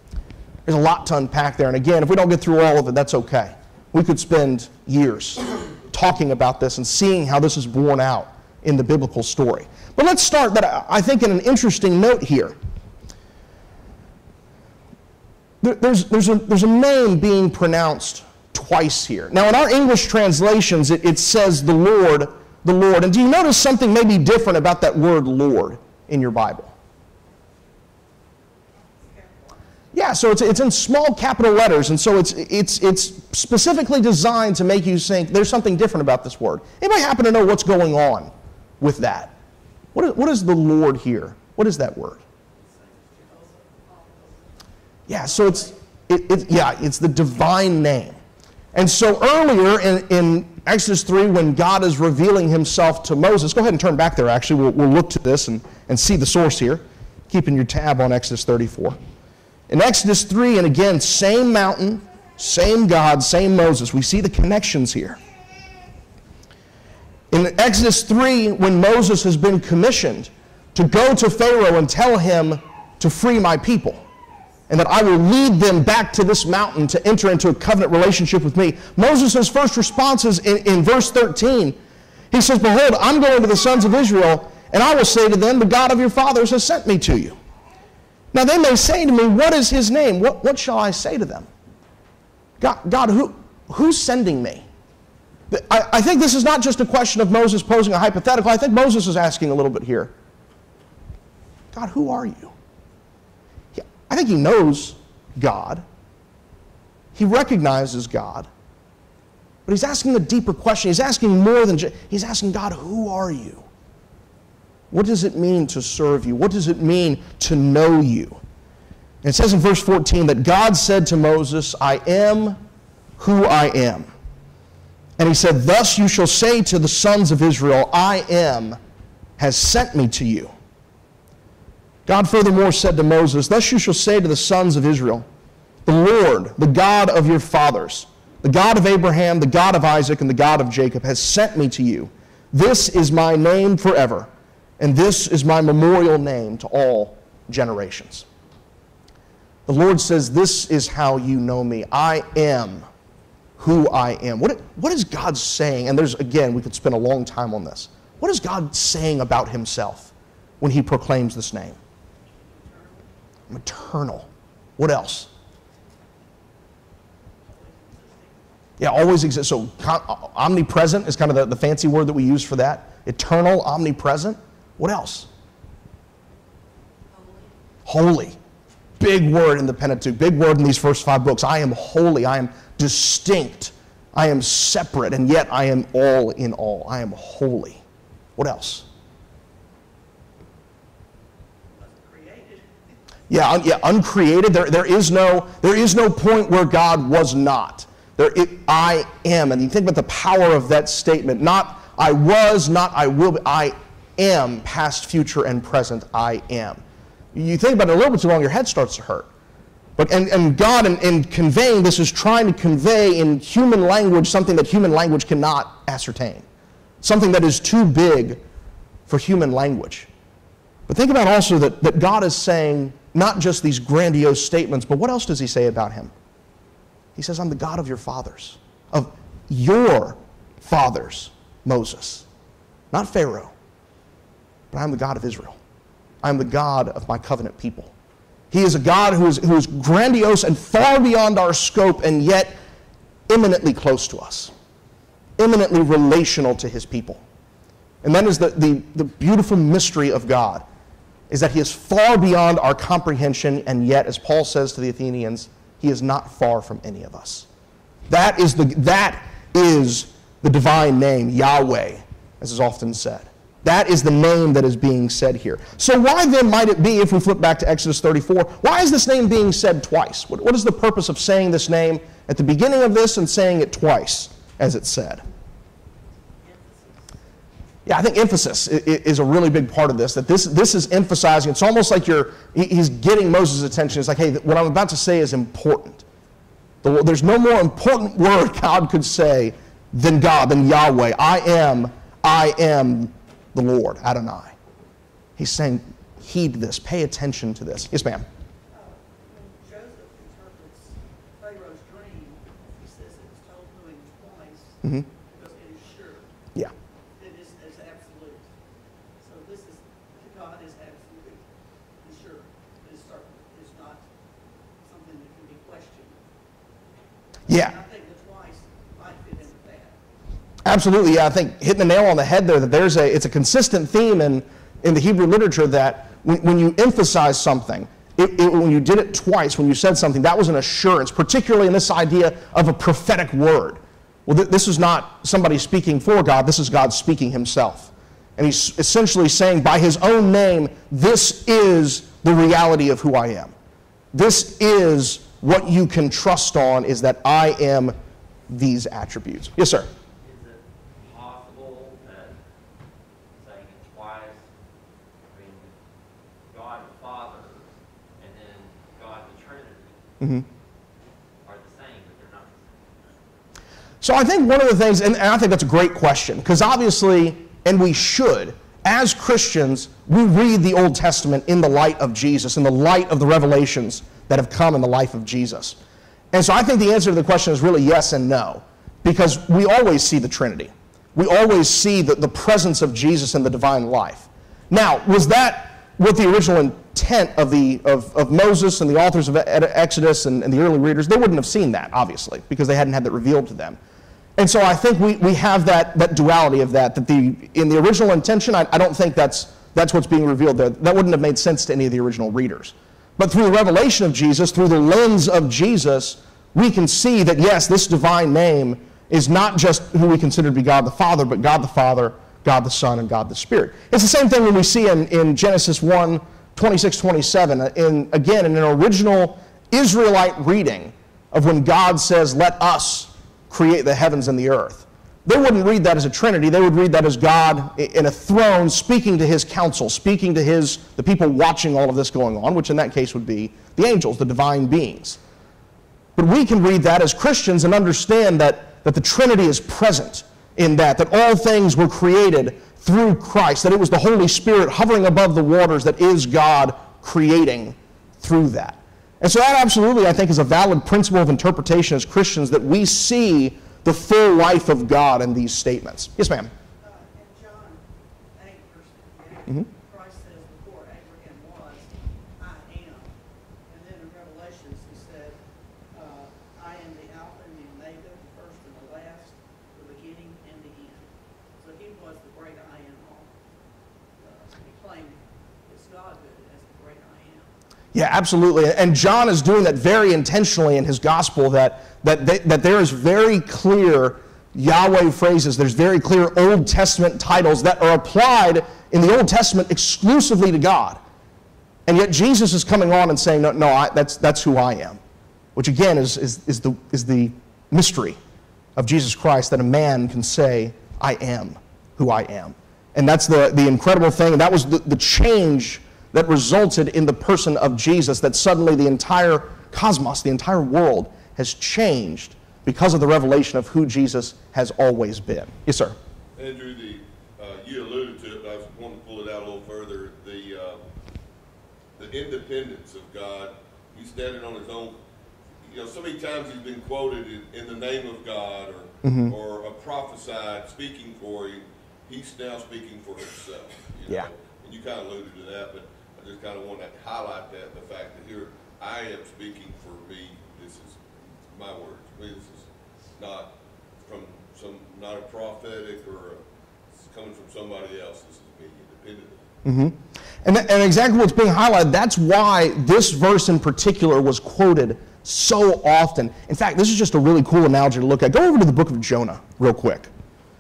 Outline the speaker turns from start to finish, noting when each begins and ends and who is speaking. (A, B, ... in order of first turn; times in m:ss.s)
0:00.7-0:12.6 A
0:15.6-0:26.7 A
0:28.8-0:29.7 B
0:29.9-0:39.4 A
0:39.9-0:42.2 A
0:42.6-0:45.8 B
0:45.1-0:48.2 A
0:48.7-0:59.0 A
0:59.7-1:05.2 A
1:07.3-1:14.0 A
1:14.7-1:21.8 A
1:22.3-1:27.4 A
1:28.3-1:31.5 A
1:32.6-1:34.7 A
1:35.5-1:40.1 A
1:41.7-1:42.5 A
1:43.7-1:45.8 A
1:47.2-1:48.5 A
1:49.7-1:53.7 A
1:54.9-1:58.4 A
1:59.2-2:02.6 A
2:03.2-2:04.1 A
2:05.2-2:08.8 A
2:09.4-2:10.5 A
2:12.1-2:15.3 A
2:15.9-2:28.3 A
2:29.7-2:32.9 A
2:33.6-2:41.8 A
2:42.3-2:43.1 B
2:43.5-2:45.3 A
2:47.4-2:48.5 B
2:48.8-2:55.3 A
2:57.9-2:58.4 A
2:59.0-3:07.8 A
3:08.4-3:08.9 A
3:11.7-3:12.7 B
3:13.3-3:26.8 A
3:27.3-3:29.3 A
3:30.0-3:36.5 A
3:37.0-3:38.4 A
3:39.1-3:40.1 A
3:40.9-3:46.1 A
3:47.2-3:52.3 A
3:52.9-3:53.5 A
3:54.7-3:55.6 A
3:56.2-3:57.9 A
3:58.5-4:02.6 A
4:03.3-4:04.5 A
4:05.4-4:07.2 A
4:08.0-4:10.6 A
4:11.3-4:17.5 A
4:18.1-4:35.2 A
4:36.4-4:37.2 B
4:37.8-4:46.0 A
4:46.8-4:54.6 A
4:55.4-4:58.3 A
4:58.7-5:06.3 B
5:07.2-5:08.5 B
5:09.2-5:11.4 B
5:12.0-5:14.0 B
5:14.8-5:16.2 B
5:17.5-5:20.0 B
5:17.5-5:17.8 A
5:20.6-5:43.5 A
5:44.1-5:48.0 A
5:48.5-5:49.9 A
5:50.2-5:52.4 C
5:53.4-5:54.4 C
5:55.3-5:55.7 C
5:56.5-5:57.7 C
5:58.2-6:00.0 C
6:01.4-6:03.4 C
6:04.0-6:15.8 A
6:16.3-6:33.8 A
6:34.4-7:15.2 A
7:16.2-7:36.5 A
7:36.8-7:37.8 B
7:38.3-7:43.1 B
7:43.7-7:45.4 B
7:45.9-7:53.3 B
7:54.2-7:57.5 B
7:57.9-8:11.0 A
8:11.9-8:15.0 A
8:15.6-8:18.2 A
8:18.8-8:36.0 A
8:36.4-8:40.8 D
8:42.0-8:45.0 D
8:45.6-9:09.5 D
8:49.0-8:49.4 A
9:09.6-9:20.1 A